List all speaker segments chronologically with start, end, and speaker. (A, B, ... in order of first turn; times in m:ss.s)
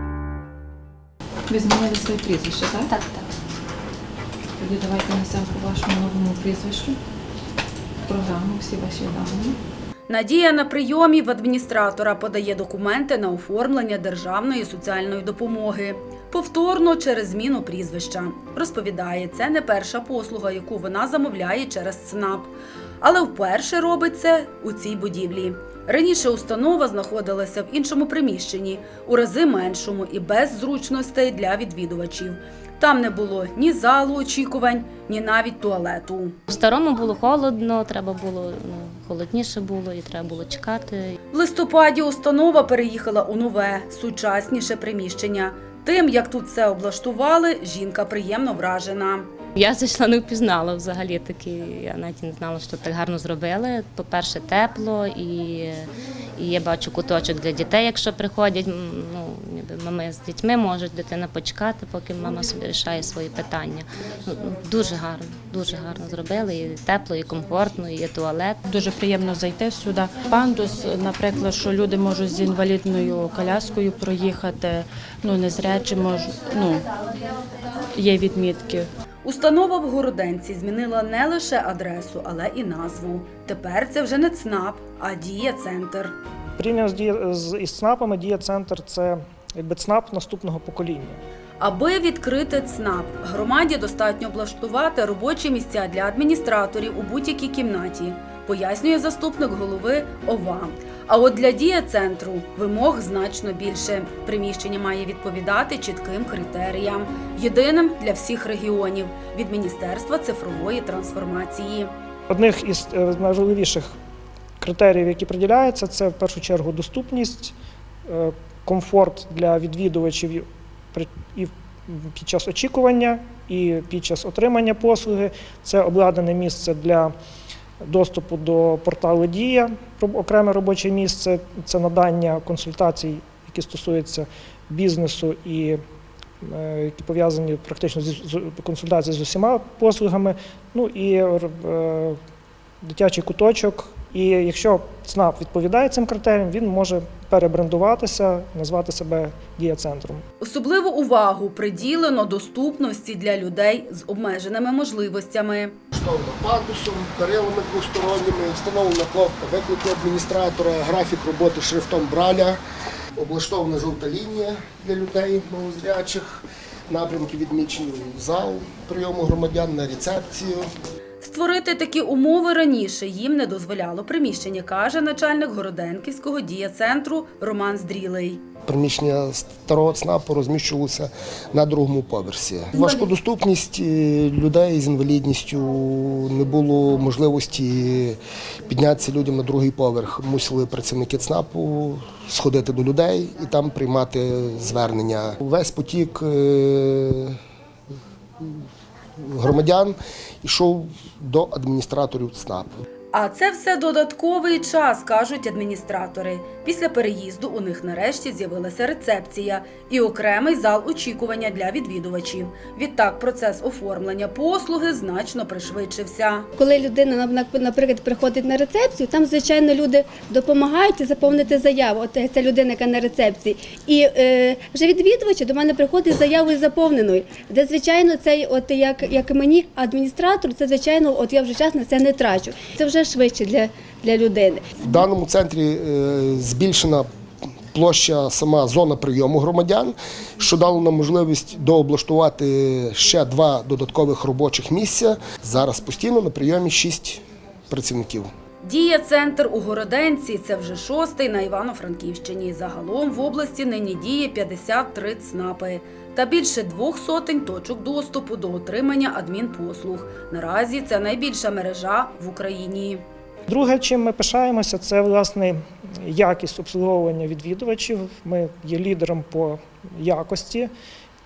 0:01.5-0:02.9 A
0:04.6-0:07.0 A
0:08.1-0:09.6 A
0:10.1-0:36.4 B
0:36.5-0:41.2 C
0:41.3-0:49.3 B
0:49.6-1:08.6 C
1:08.6-1:16.9 D
1:17.9-1:18.9 D
1:19.2-1:26.1 B
1:26.6-1:31.2 E
1:31.6-1:51.9 B
1:52.3-1:54.0 E
1:54.6-2:07.2 E
2:07.8-2:15.8 E
2:16.4-2:22.2 E
2:22.8-2:30.2 E
2:30.4-2:35.8 B
2:35.9-2:42.6 F
2:43.2-2:50.7 F
2:51.2-2:58.4 B
2:58.7-3:17.4 F
3:02.7-3:03.1 B
3:19.2-3:22.7 F
3:23.1-3:36.5 B
3:36.6-3:54.7 G
3:54.8-3:57.1 F
3:57.7-4:08.3 F
4:08.6-4:23.0 B
4:23.5-4:30.7 E